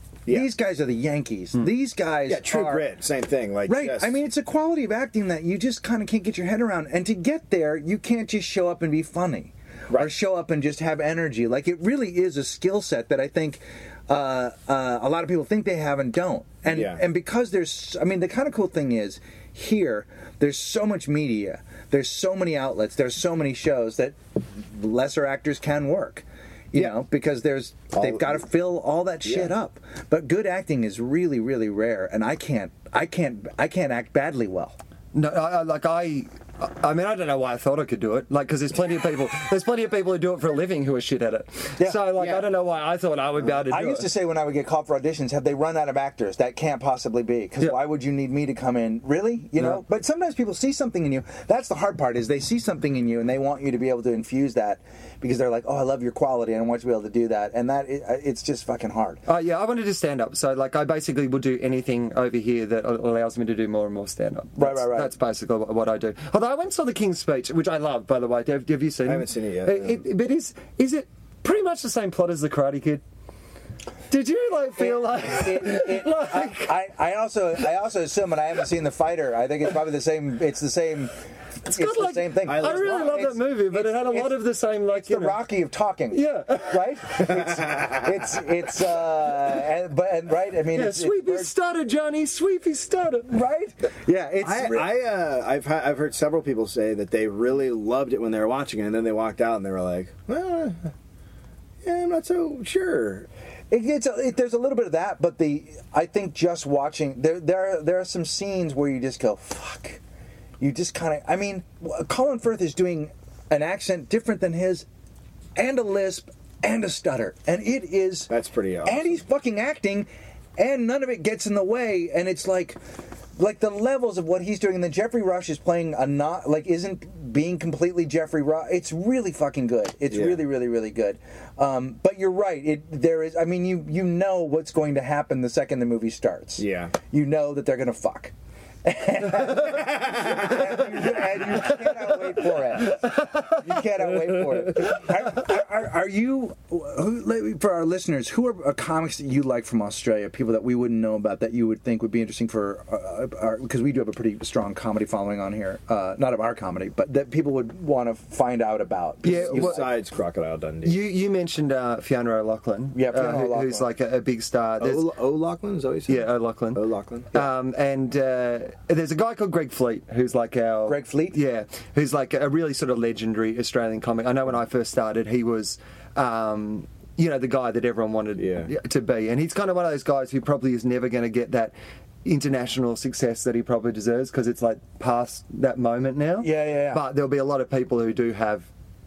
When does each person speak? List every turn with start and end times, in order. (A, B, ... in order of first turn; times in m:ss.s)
0:00.3-0:02.9 A
0:02.3-0:04.1 B
0:03.7-0:34.7 A
0:16.7-0:17.0 B
0:27.9-0:28.4 B
0:29.2-0:29.5 B
0:35.1-0:44.1 C
0:41.8-0:42.4 A
0:43.6-0:59.2 A
0:59.2-1:13.0 C
1:04.6-1:05.1 A
1:09.0-1:10.0 B
1:14.1-1:16.7 C
1:14.8-1:21.1 A
1:21.6-1:25.4 C
1:21.6-1:31.5 A
1:22.4-1:23.2 B
1:26.1-1:26.8 C
1:27.5-1:28.0 B
1:30.7-1:33.3 C
1:33.3-1:34.9 A
1:34.4-1:40.8 B
1:41.8-1:43.3 B
1:43.7-1:50.0 A
1:50.6-1:54.8 A
1:55.6-1:58.3 A
1:58.3-1:59.2 B
1:58.8-2:02.8 A
2:03.4-2:18.3 A
2:10.1-2:10.4 B
2:16.6-2:16.9 B
2:18.8-2:39.8 A
2:19.8-2:20.8 B
2:23.0-2:23.5 C
2:39.2-2:39.8 C
2:39.3-2:41.0 B
2:40.8-2:45.1 C
2:42.9-2:43.9 A
2:44.8-2:47.4 B
2:46.1-3:01.7 C
2:50.9-2:51.4 A
2:58.4-2:58.7 B
3:02.2-3:08.7 C
3:06.4-3:07.0 A